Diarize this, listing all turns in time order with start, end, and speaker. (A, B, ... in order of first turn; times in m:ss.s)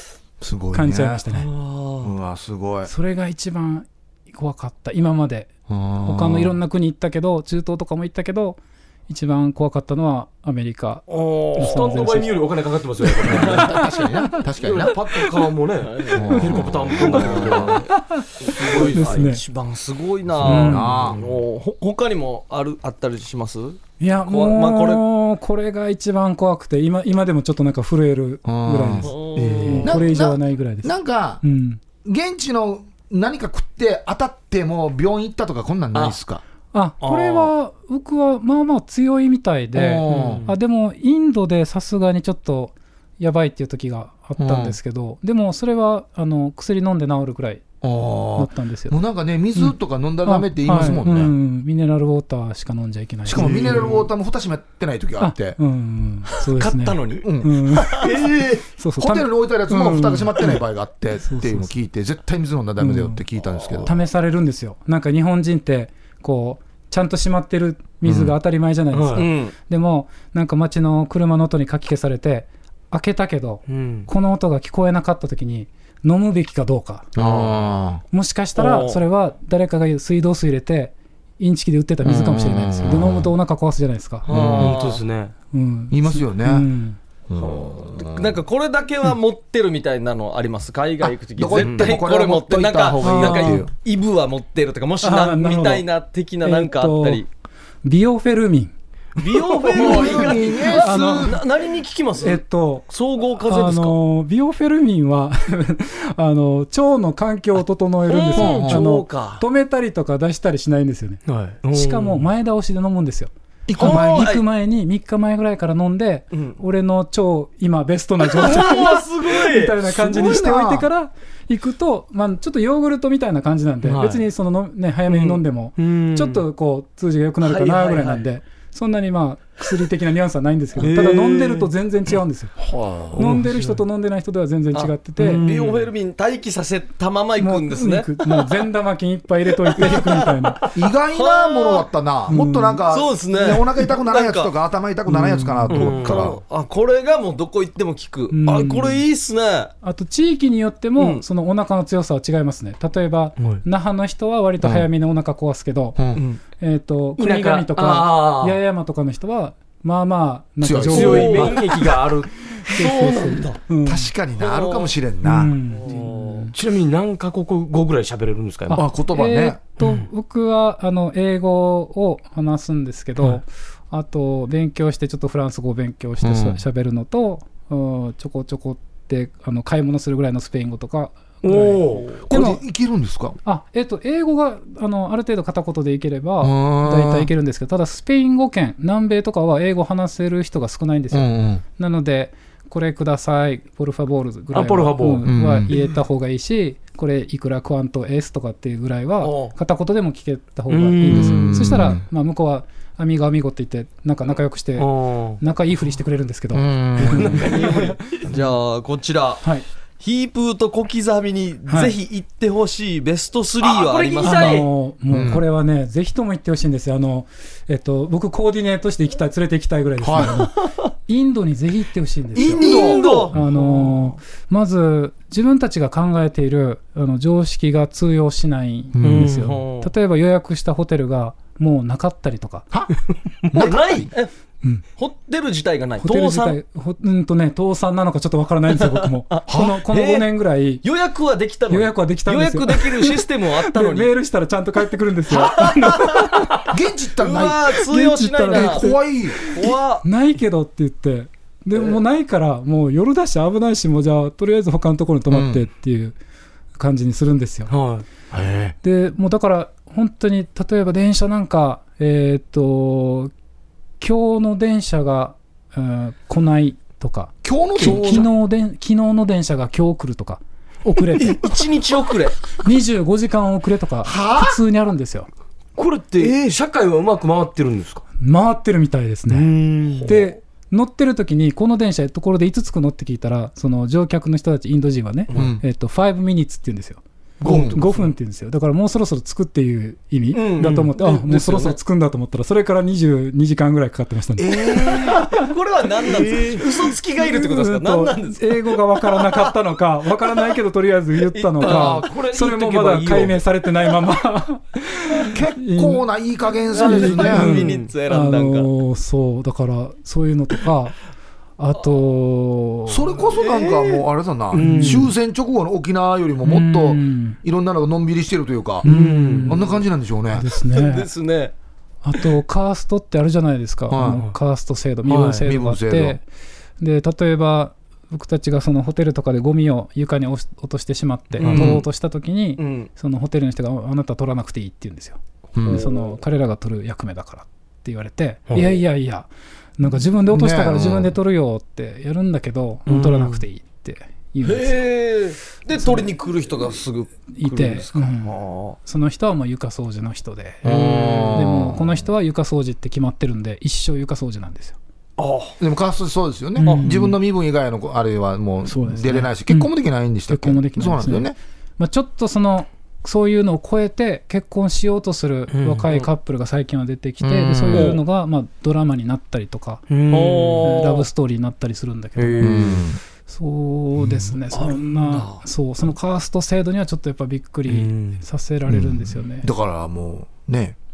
0:00.4-0:01.2 A
0:00.7-0:01.5 B
0:01.5-0:01.9 C
0:02.0-0:02.9 A
0:02.8-0:05.5 B
0:05.7-0:06.6 A
0:06.0-0:12.4 B
0:11.2-0:13.8 D
0:11.3-0:12.2 C
0:13.2-0:15.0 A
0:13.2-0:13.7 C
0:14.6-0:17.9 D
0:15.8-0:17.8 C
0:16.1-0:17.7 A
0:16.4-0:16.8 B
0:17.9-0:19.4 B
0:18.4-0:25.0 C
0:18.6-0:19.2 D
0:20.4-0:21.2 A
0:20.4-0:21.0 B
0:20.4-0:21.3 D
0:24.0-0:31.8 B
0:28.4-0:29.1 A
0:29.0-0:30.0 C
0:29.4-0:29.9 D
0:29.8-0:31.4 A
0:32.0-0:36.4 A
0:36.7-0:47.6 B
0:37.0-0:37.5 D
0:39.7-0:40.5 A
0:40.1-0:40.5 D
0:44.4-0:44.8 A
0:47.8-0:51.3 A
0:48.3-0:49.0 B
0:49.6-0:54.0 B
0:53.2-0:55.6 A
0:53.4-0:54.0 D
0:55.2-0:58.1 B
0:56.4-0:57.2 C
0:57.2-1:04.0 A
0:57.8-0:58.2 C
0:58.7-1:00.6 B
1:01.2-1:01.7 B
1:02.8-1:03.2 B
1:03.8-1:17.1 B
1:08.0-1:08.3 A
1:08.9-1:09.2 D
1:09.1-1:09.5 C
1:13.7-1:14.1 D
1:17.1-1:18.0 A
1:17.2-1:17.6 D
1:18.1-1:24.3 B
1:18.6-1:19.0 C
1:22.0-1:23.3 A
1:24.3-1:25.3 D
1:24.3-1:24.8 A
1:24.3-1:25.0 C
1:25.5-1:27.0 B
1:25.9-1:26.6 A
1:27.3-1:28.4 A
1:27.4-1:37.2 C
1:31.4-1:33.7 A
1:31.6-1:32.0 D
1:33.0-1:33.6 B
1:35.0-1:35.8 B
1:36.4-1:37.2 B
1:37.8-1:38.7 B
1:39.2-1:44.0 C
1:39.7-1:41.4 A
1:40.7-1:41.4 B
1:42.2-1:42.9 B
1:43.4-2:12.5 B
1:48.1-1:49.4 C
1:48.4-1:48.8 A
1:51.2-1:52.3 D
1:53.7-1:54.3 A
1:53.8-1:54.4 C
1:56.3-1:56.6 C
1:58.2-1:59.7 C
1:59.8-2:00.9 A
2:03.8-2:04.2 D
2:05.1-2:06.4 D
2:07.4-2:08.2 C
2:10.8-2:11.7 D
2:12.6-2:13.2 A
2:13.1-2:13.8 D
2:13.2-2:15.4 B
2:14.7-2:18.6 C
2:15.2-2:15.9 D
2:17.4-2:20.6 B
2:19.7-2:21.9 C
2:20.7-2:26.4 A
2:22.3-2:22.8 B
2:22.9-2:24.5 C
2:25.1-2:25.8 B
2:25.7-2:26.3 D
2:25.7-2:29.7 C
2:28.3-2:29.0 B
2:29.8-2:36.0 B
2:31.0-2:31.2 C
2:34.6-2:34.9 A
2:36.0-2:36.2 A
2:36.1-2:36.4 C
2:36.6-2:41.8 B
2:37.2-2:38.6 D
2:40.6-2:41.5 A
2:40.9-2:43.5 D
2:40.9-2:41.6 C
2:42.5-2:44.1 B
2:42.8-2:43.5 C
2:43.8-2:45.5 A
2:44.4-2:44.9 C
2:45.2-2:46.5 B
2:45.8-2:48.8 D
2:48.7-3:02.6 B
2:48.7-2:49.6 A
2:49.8-2:50.1 D
2:56.2-2:56.6 A
3:01.4-3:02.2 D
3:02.3-3:03.4 A
3:03.4-3:27.8 B
3:06.4-3:07.3 A
3:11.1-3:11.6 A
3:14.5-3:15.3 D
3:15.2-3:15.7 A
3:19.2-3:19.5 D
3:20.7-3:21.6 D
3:21.0-3:22.0 A
3:24.8-3:25.4 D
3:26.5-3:27.6 A
3:27.0-3:28.0 D
3:27.4-3:29.4 C
3:30.0-3:34.6 C
3:31.7-3:31.9 B
3:33.6-3:34.7 D
3:34.2-3:42.7 B
3:35.1-3:35.4 A
3:40.0-3:40.4 A
3:42.3-3:43.3 A
3:42.4-3:43.4 C
3:42.7-3:43.5 D
3:43.3-3:52.7 B
3:48.9-3:49.5 A
3:49.0-3:49.6 D
3:49.4-3:49.9 C
3:53.5-3:54.1 A
3:53.5-3:54.3 C
3:55.0-3:56.6 C
3:56.0-4:00.8 B
3:58.7-4:00.3 C
3:59.5-3:59.8 A
4:00.8-4:04.1 C
4:01.7-4:06.6 B
4:05.3-4:06.3 C
4:06.7-4:07.6 A
4:07.2-4:08.9 C
4:07.8-4:16.2 B
4:08.5-4:09.4 A
4:09.4-4:10.0 C
4:15.3-4:15.6 A
4:16.8-4:17.7 B
4:17.7-4:18.0 D
4:18.3-4:18.7 A
4:18.8-4:23.3 B
4:24.0-4:31.6 B
4:27.4-4:28.3 A
4:31.2-4:32.4 C
4:32.6-4:35.3 B
4:34.0-4:34.6 A
4:35.8-4:38.0 D
4:38.2-4:55.4 B
4:39.3-4:40.2 D
4:45.3-4:45.6 A
4:47.4-4:47.9 A
4:47.4-4:48.0 D
4:50.3-4:51.8 C
4:50.6-4:50.9 D
4:54.4-4:55.2 A
4:54.9-4:59.5 C
4:56.2-4:56.6 B
4:57.2-5:06.0 B
5:01.3-5:02.0 C
5:01.6-5:03.4 D
5:05.3-5:07.5 A
5:06.7-5:08.7 C
5:06.8-5:11.0 B
5:07.2-5:07.8 D
5:11.6-5:13.2 B
5:12.9-5:18.8 A
5:13.3-5:14.0 C
5:14.5-5:15.1 D
5:14.5-5:15.1 B
5:16.4-5:17.4 B
5:18.8-5:19.7 B
5:18.8-5:19.5 D
5:19.4-5:20.4 A
5:20.3-5:21.1 B
5:20.5-5:21.5 C
5:22.0-5:26.2 B
5:23.9-5:24.2 A
5:25.1-5:25.4 D
5:25.3-5:26.2 A
5:26.8-5:44.8 B
5:31.4-5:31.8 C
5:31.4-5:31.8 D
5:31.5-5:31.8 A
5:32.6-5:32.9 C
5:35.5-5:35.8 A
5:38.5-5:38.7 D
5:40.3-5:41.1 A
5:42.9-5:43.4 D
5:44.4-5:48.8 C
5:45.8-5:46.1 B
5:47.3-5:50.7 B
5:50.6-5:52.1 A
5:50.7-5:51.3 D
5:51.3-5:54.8 B
5:55.2-5:55.4 D
5:55.6-6:01.4 A
5:56.6-5:57.2 B
5:58.6-5:59.7 B
6:00.3-6:09.9 B
6:05.5-6:05.9 D
6:07.2-6:07.9 D
6:07.7-6:08.0 C
6:09.9-6:10.8 D
6:10.1-6:11.0 C
6:10.6-6:12.7 B
6:12.2-6:12.8 D
6:12.4-6:13.0 A
6:13.2-6:19.5 B
6:14.0-6:14.8 D
6:17.7-6:18.2 D
6:18.7-6:20.8 A